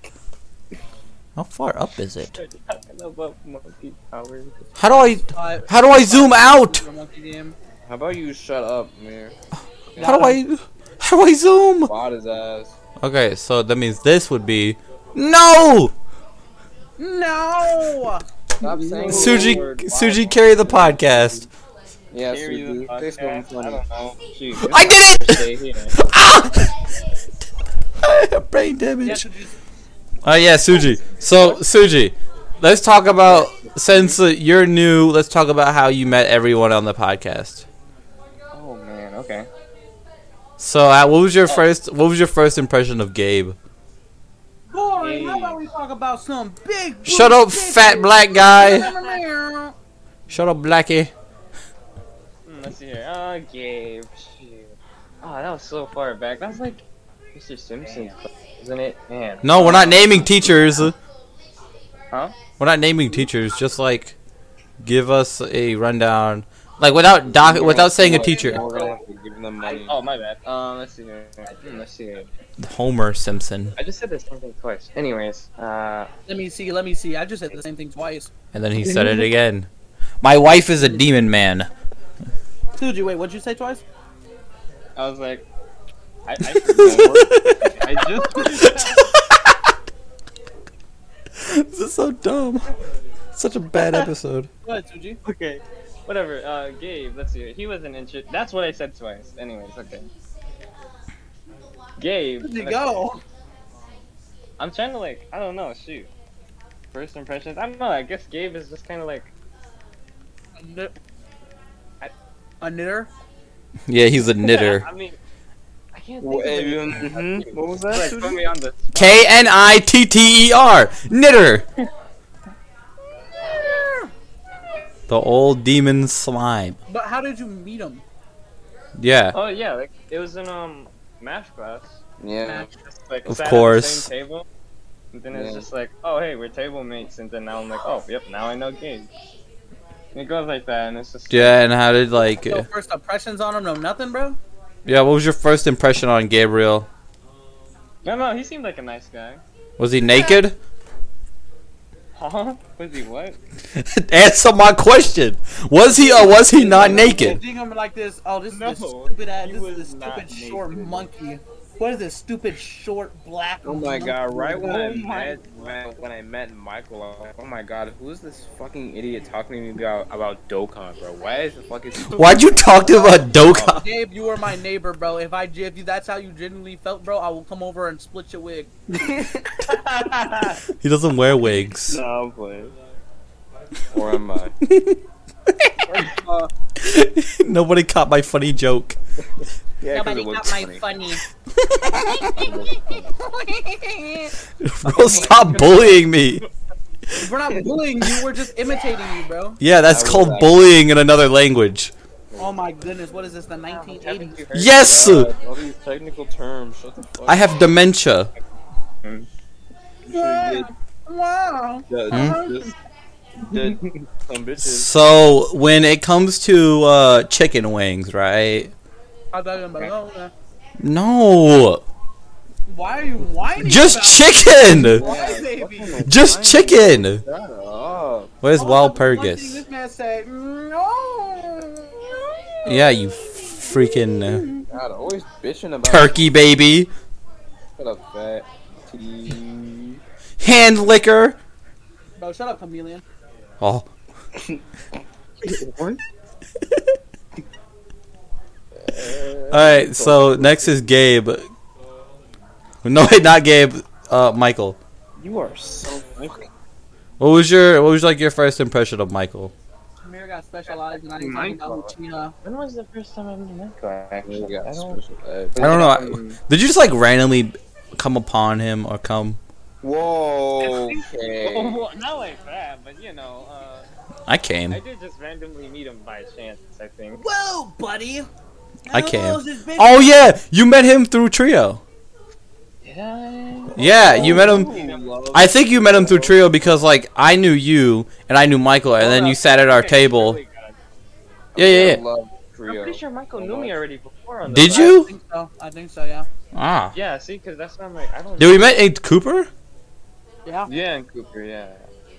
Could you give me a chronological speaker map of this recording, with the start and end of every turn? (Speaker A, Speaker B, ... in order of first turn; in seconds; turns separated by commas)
Speaker A: 1.4-2.3, Speaker B: 2.3-4.9, Speaker A: 4.8-6.8, Speaker C: 5.2-7.5, Speaker D: 7.8-9.3, Speaker C: 10.0-10.4, Speaker A: 10.0-11.9, Speaker D: 11.9-12.7, Speaker A: 13.0-15.9, Speaker C: 17.0-18.2, Speaker B: 18.6-21.0, Speaker D: 18.6-21.0, Speaker A: 19.1-21.5, Speaker D: 22.1-25.9, Speaker B: 22.2-24.6, Speaker A: 24.6-25.4, Speaker A: 26.0-26.7, Speaker A: 28.0-29.2, Speaker C: 29.0-29.6, Speaker A: 30.2-37.6, Speaker B: 38.5-39.5, Speaker A: 40.6-43.6, Speaker C: 44.7-49.7, Speaker B: 45.0-45.6, Speaker A: 47.0-48.9, Speaker B: 48.6-49.1, Speaker A: 50.3-51.1, Speaker B: 52.4-56.8, Speaker B: 57.3-60.1, Speaker A: 59.4-60.9, Speaker A: 62.6-64.2, Speaker A: 64.8-68.6, Speaker D: 67.2-70.0, Speaker C: 68.0-68.9, Speaker B: 68.5-68.9, Speaker B: 69.6-72.3, Speaker A: 72.6-73.7, Speaker B: 73.8-76.1, Speaker C: 76.3-78.3, Speaker A: 78.5-79.7, Speaker B: 78.8-79.3, Speaker A: 80.2-81.7, Speaker C: 82.8-83.8, Speaker B: 85.0-85.5, Speaker B: 86.2-89.1, Speaker D: 86.7-87.3, Speaker A: 86.7-88.8, Speaker A: 91.4-92.7, Speaker A: 93.3-94.5, Speaker B: 93.8-94.1, Speaker C: 94.6-95.2, Speaker B: 95.2-100.1, Speaker B: 102.0-103.0, Speaker C: 102.4-103.2, Speaker B: 104.6-106.1, Speaker B: 106.9-109.3, Speaker C: 110.6-110.9, Speaker C: 112.6-113.1, Speaker A: 113.9-114.8, Speaker B: 114.4-115.2, Speaker B: 115.9-119.5, Speaker D: 116.2-118.4, Speaker A: 118.9-121.6, Speaker C: 123.6-124.1, Speaker A: 125.1-126.8, Speaker C: 126.9-128.0, Speaker A: 129.0-129.3, Speaker B: 129.3-132.0, Speaker D: 132.2-132.7, Speaker C: 132.4-132.7, Speaker B: 132.8-134.4, Speaker A: 133.2-134.1, Speaker B: 135.1-139.1, Speaker D: 135.3-135.7, Speaker B: 140.1-141.6, Speaker A: 141.3-142.7, Speaker C: 142.2-144.4, Speaker A: 144.8-146.9, Speaker B: 148.0-149.4, Speaker A: 149.8-150.6, Speaker C: 150.1-150.4, Speaker B: 152.1-153.4, Speaker A: 153.8-157.4, Speaker C: 155.9-165.0, Speaker B: 156.2-157.2, Speaker D: 156.3-157.4, Speaker B: 158.5-161.1, Speaker D: 163.6-173.8, Speaker B: 164.6-165.8, Speaker A: 172.1-173.8, Speaker C: 173.8-178.7, Speaker D: 178.9-179.5, Speaker B: 179.7-180.6, Speaker A: 180.8-182.0, Speaker D: 181.9-182.7, Speaker D: 183.9-184.5, Speaker A: 184.6-185.0, Speaker C: 186.2-186.5, Speaker A: 186.8-188.9, Speaker D: 189.8-190.8, Speaker C: 189.9-191.2, Speaker C: 191.9-192.5, Speaker D: 192.3-193.1, Speaker C: 193.1-194.3, Speaker A: 194.6-196.4, Speaker C: 194.8-195.9, Speaker B: 195.2-195.8, Speaker C: 197.1-199.6, Speaker A: 199.6-201.9, Speaker D: 199.9-200.7, Speaker D: 202.3-202.6, Speaker C: 202.4-204.4, Speaker B: 203.7-205.0, Speaker A: 204.5-205.3, Speaker D: 204.8-207.6, Speaker A: 207.2-208.3, Speaker D: 210.0-210.7, Speaker C: 210.1-212.7, Speaker D: 211.9-212.7, Speaker A: 212.1-212.4, Speaker D: 213.4-214.9, Speaker B: 213.5-213.8, Speaker A: 214.6-218.7, Speaker C: 219.3-220.3, Speaker A: 220.8-221.8, Speaker C: 222.7-226.1, Speaker A: 223.6-225.0, Speaker D: 224.7-228.3, Speaker A: 226.0-227.2, Speaker B: 226.2-226.7, Speaker A: 228.4-229.6, Speaker C: 228.6-232.8, Speaker A: 232.6-234.4, Speaker C: 234.1-234.7, Speaker D: 234.7-236.3, Speaker A: 235.8-236.9, Speaker D: 237.8-240.0, Speaker A: 240.4-241.4, Speaker C: 242.2-243.0, Speaker A: 243.6-243.9, Speaker B: 245.4-246.0, Speaker D: 248.8-250.8, Speaker A: 249.5-251.5, Speaker A: 252.8-254.8, Speaker D: 255.2-256.5, Speaker A: 257.2-259.5, Speaker C: 260.0-262.3, Speaker B: 261.1-265.0, Speaker D: 264.2-265.8, Speaker B: 265.5-266.4, Speaker A: 265.6-269.4, Speaker D: 269.8-271.8, Speaker B: 270.6-273.9, Speaker A: 274.3-274.8, Speaker B: 274.7-277.2, Speaker C: 277.1-278.3, Speaker C: 278.9-280.2, Speaker A: 278.9-281.8, Speaker B: 282.8-285.2, Speaker D: 283.7-286.4, Speaker A: 283.8-284.7, Speaker A: 285.3-290.4, Speaker B: 289.0-290.8, Speaker D: 291.5-293.8, Speaker A: 291.6-292.0, Speaker B: 292.6-295.0, Speaker A: 294.4-295.1, Speaker C: 294.7-296.3, Speaker A: 296.5-296.9, Speaker B: 296.9-298.8, Speaker A: 298.4-299.5, Speaker B: 300.6-301.9